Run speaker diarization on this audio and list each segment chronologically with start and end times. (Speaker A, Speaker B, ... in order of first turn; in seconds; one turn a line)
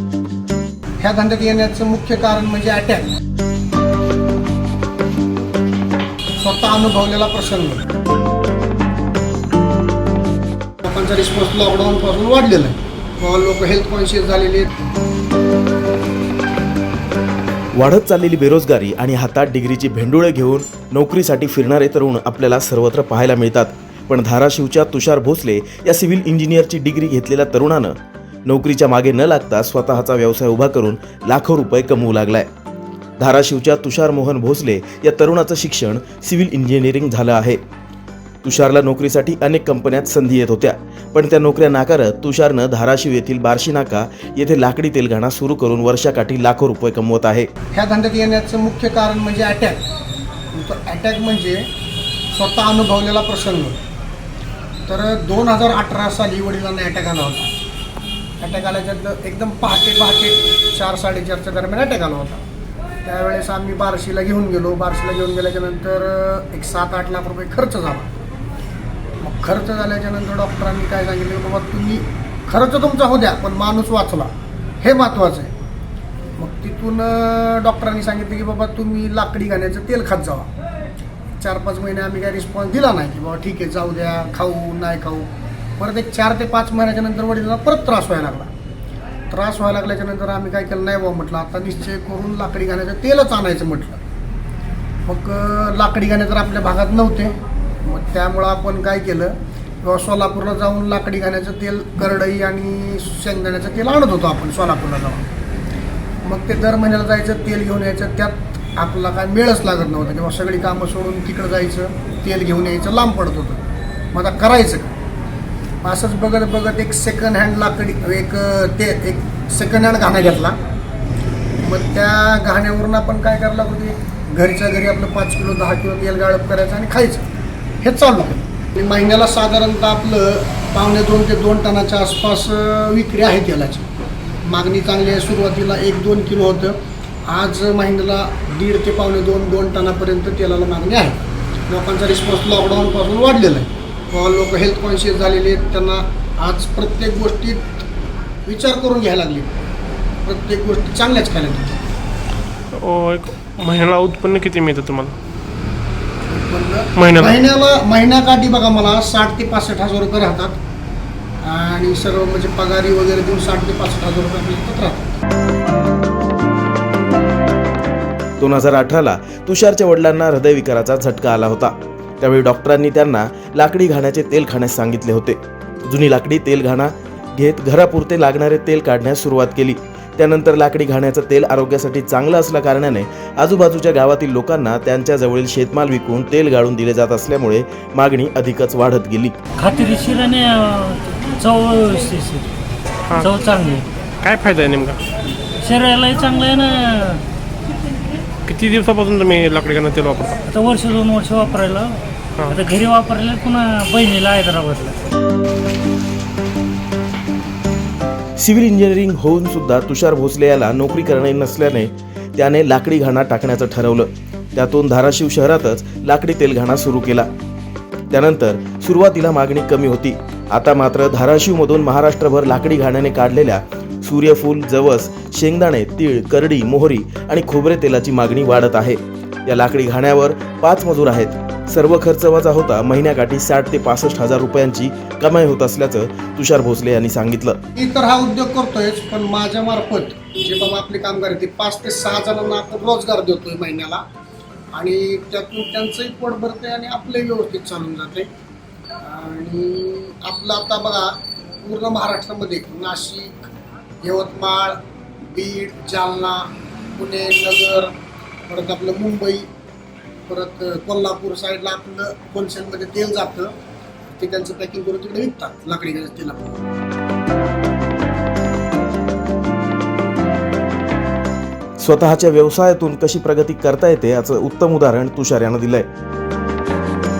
Speaker A: 1.0-3.1
Speaker A: 6.4-7.8
Speaker A: 10.8-14.7
Speaker B: 17.8-27.9
Speaker B: 28.4-32.5
Speaker B: 33.2-37.6
Speaker B: 38.4-47.5
Speaker A: 47.7-49.8
Speaker A: 50.5-51.7
Speaker A: 52.3-53.8
Speaker A: 54.9-57.5
Speaker A: 58.4-62.4
Speaker A: 63.0-68.1
Speaker A: 69.2-75.5
Speaker A: 76.4-80.5
Speaker A: 81.4-88.5
Speaker A: 89.3-94.0
Speaker A: 95.1-97.3
Speaker A: 97.8-105.2
Speaker A: 106.2-113.6
Speaker A: 114.1-114.9
Speaker A: 115.8-120.5
Speaker A: 121.6-127.2
Speaker A: 127.8-133.9
Speaker A: 134.4-136.7
Speaker A: 137.2-147.7
Speaker A: 148.5-149.5
Speaker A: 150.2-151.8
Speaker C: 152.8-155.1
Speaker A: 156.3-160.6
Speaker C: 156.9-157.4
Speaker A: 161.4-165.1
Speaker B: 168.4-189.3
Speaker D: 189.6-192.4
Speaker D: 193.2-193.8
Speaker C: 194.2-195.0
Speaker D: 195.6-197.2
Speaker C: 198.5-200.4
Speaker D: 200.5-205.0
Speaker B: 208.4-217.3
Speaker B: 218.1-237.6
Speaker A: 237.8-244.0
Speaker A: 244.7-248.3
Speaker A: 249.0-253.5
Speaker A: 254.0-257.9
Speaker A: 258.5-259.5
Speaker A: 260.3-263.5
Speaker A: 264.2-266.5
Speaker B: 271.8-275.8